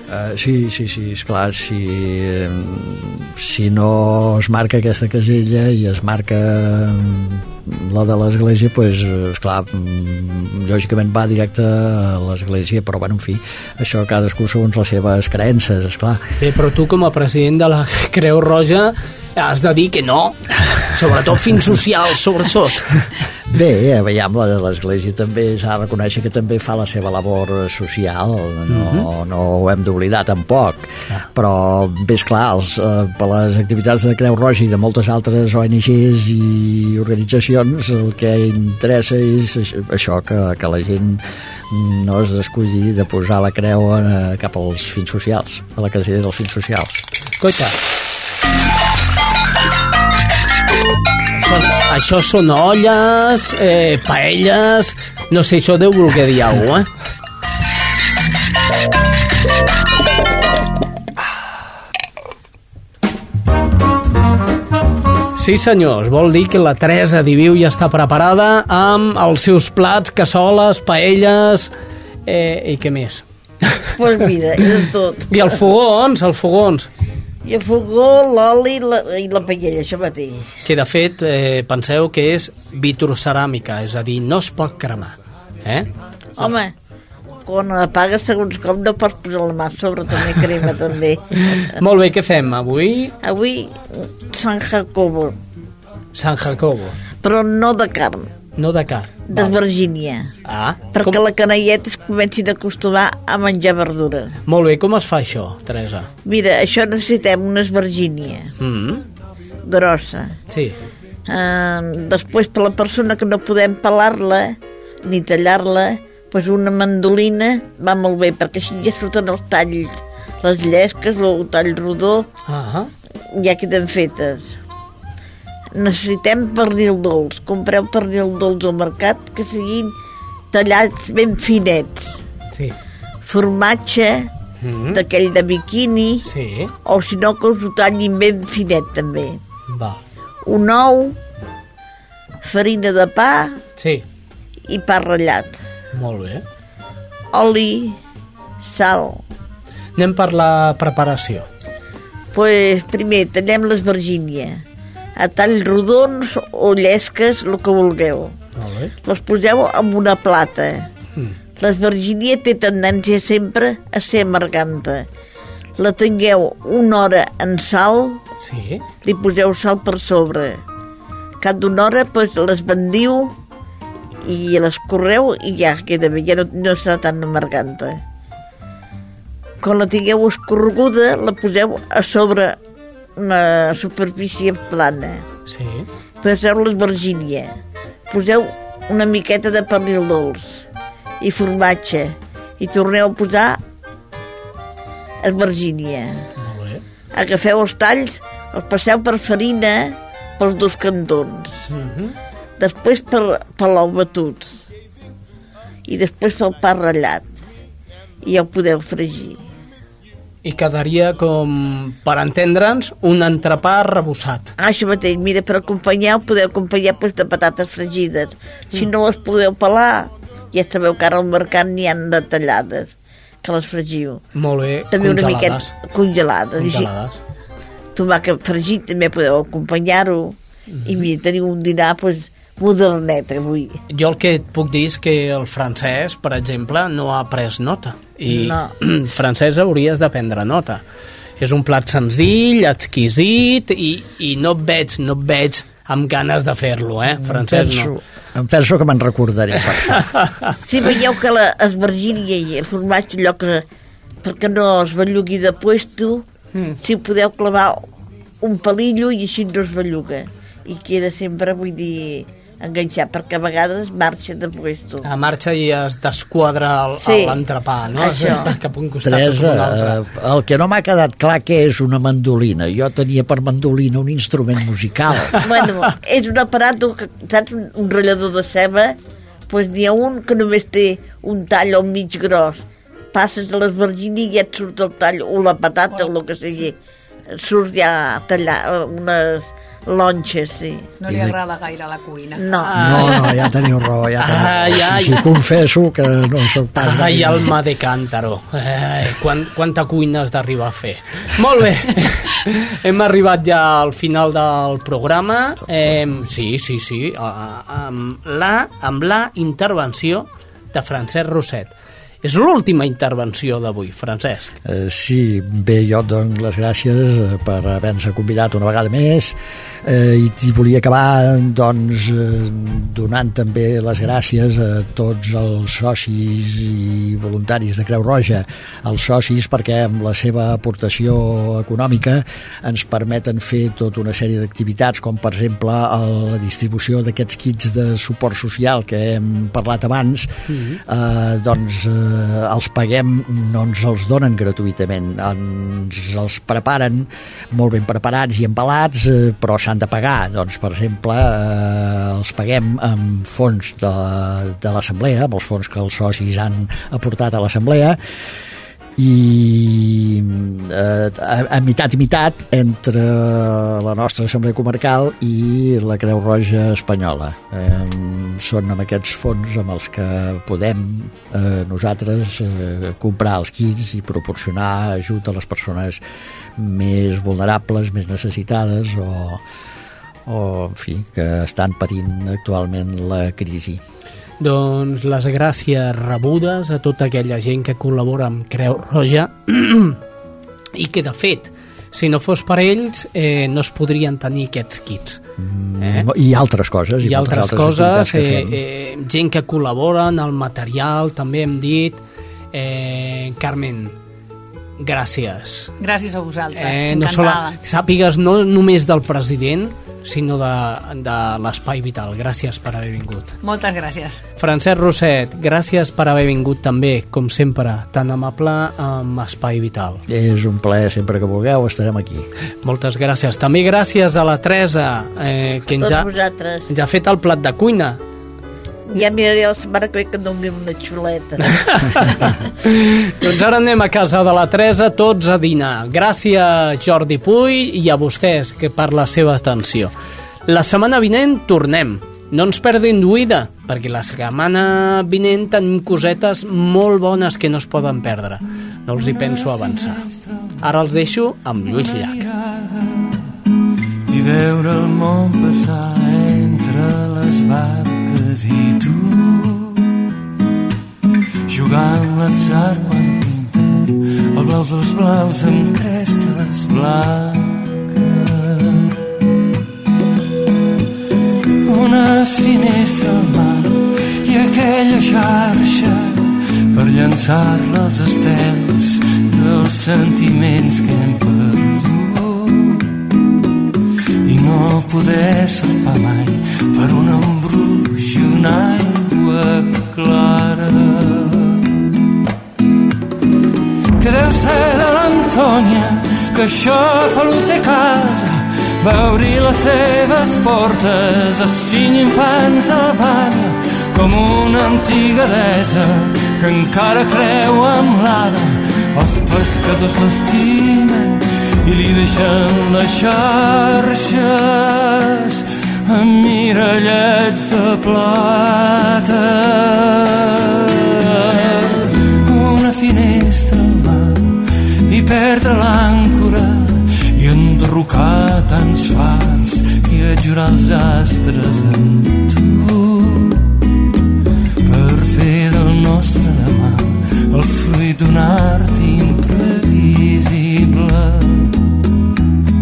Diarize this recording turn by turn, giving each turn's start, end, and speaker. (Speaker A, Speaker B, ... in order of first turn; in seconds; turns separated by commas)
Speaker A: 0.1-16.2, Speaker B: 16.4-23.1, Speaker A: 23.5-47.0, Speaker B: 28.7-29.1, Speaker B: 47.4-47.8, Speaker B: 51.4-56.9, Speaker B: 65.3-71.7, Speaker B: 72.3-73.7, Speaker C: 73.9-75.3, Speaker B: 75.3-76.9, Speaker C: 77.5-80.5, Speaker B: 80.7-86.5, Speaker C: 86.4-86.7, Speaker C: 87.5-91.8, Speaker B: 91.5-93.1, Speaker C: 93.2-95.4, Speaker B: 96.2-97.0, Speaker C: 97.2-98.3, Speaker B: 98.6-99.6, Speaker C: 99.3-100.3, Speaker B: 100.5-101.2, Speaker C: 101.0-104.4, Speaker B: 104.5-106.1, Speaker C: 106.2-108.5, Speaker B: 108.6-109.0, Speaker C: 109.7-110.3, Speaker B: 110.5-110.8, Speaker C: 111.3-122.3, Speaker B: 122.5-122.9, Speaker C: 123.3-124.5, Speaker C: 125.7-129.9, Speaker C: 130.5-132.2, Speaker C: 133.2-134.3, Speaker B: 134.6-135.0, Speaker C: 134.9-136.2, Speaker B: 136.2-136.7, Speaker C: 136.8-139.4, Speaker B: 139.7-140.0, Speaker C: 140.4-141.2, Speaker C: 142.4-143.6, Speaker B: 143.8-144.1, Speaker C: 144.7-145.6, Speaker B: 145.9-146.4, Speaker C: 147.3-148.0, Speaker C: 148.6-149.2, Speaker B: 150.0-151.5, Speaker C: 152.3-154.6, Speaker C: 155.2-158.3, Speaker B: 158.6-158.9, Speaker C: 159.1-160.9, Speaker C: 161.6-165.1, Speaker C: 165.8-168.2, Speaker B: 168.4-168.8, Speaker C: 169.0-170.6, Speaker C: 171.4-173.3, Speaker C: 174.2-178.0, Speaker C: 179.6-182.6, Speaker C: 183.2-185.2, Speaker B: 185.5-185.9, Speaker C: 186.2-187.5, Speaker C: 188.1-190.6, Speaker C: 191.2-193.6, Speaker C: 195.2-196.2, Speaker B: 196.4-196.8, Speaker C: 197.1-201.5, Speaker B: 201.7-202.2, Speaker C: 202.6-204.6, Speaker C: 205.9-207.3, Speaker C: 208.2-209.4, Speaker B: 210.4-214.5, Speaker C: 214.6-224.2, Speaker B: 224.3-225.7, Speaker C: 224.9-226.9, Speaker B: 226.6-227.2, Speaker C: 227.9-233.8, Speaker B: 230.7-231.0, Speaker B: 233.9-240.8, Speaker C: 238.3-238.7, Speaker B: 241.4-247.9, Speaker A: 247.2-250.1, Speaker B: 249.9-250.6, Speaker C: 250.7-253.6, Speaker C: 254.2-256.2, Speaker C: 256.8-257.8, Speaker C: 258.4-265.1, Speaker B: 265.0-270.0, Speaker C: 267.0-267.4, Speaker C: 267.9-268.5, Speaker A: 269.0-275.4, Speaker C: 275.4-279.0, Speaker C: 279.5-282.6, Speaker C: 283.1-286.8, Speaker C: 287.3-290.9, Speaker D: 291.0-292.5, Speaker A: 291.1-291.4, Speaker C: 292.4-292.9, Speaker B: 292.6-293.4, Speaker A: 292.8-297.5, Speaker B: 294.2-295.3, Speaker B: 296.8-314.6, Speaker A: 314.6-358.0, Speaker B: 340.5-340.8, Speaker A: 359.0-376.0, Speaker A: 376.6-379.4, Speaker A: 380.3-383.8, Speaker B: 384.4-390.0, Speaker B: 390.8-395.2, Speaker A: 395.4-398.6, Speaker B: 395.8-396.1, Speaker B: 397.0-402.0, Speaker B: 402.5-404.0, Speaker B: 404.8-405.8, Speaker D: 405.8-407.6, Speaker B: 406.6-413.4, Speaker D: 413.4-414.2, Speaker B: 414.4-420.0, Speaker A: 420.1-422.3, Speaker B: 422.6-426.1, Speaker C: 425.8-426.7, Speaker B: 426.7-428.0, Speaker C: 428.9-432.1, Speaker B: 431.5-439.9, Speaker B: 440.5-450.1, Speaker E: 449.0-450.8, Speaker B: 450.6-452.2, Speaker E: 451.6-453.2, Speaker E: 454.1-459.8, Speaker E: 461.5-468.9, Speaker E: 471.6-482.9, Speaker E: 484.2-491.6, Speaker E: 494.0-524.4, Speaker E: 524.9-533.5, Speaker E: 534.6-541.5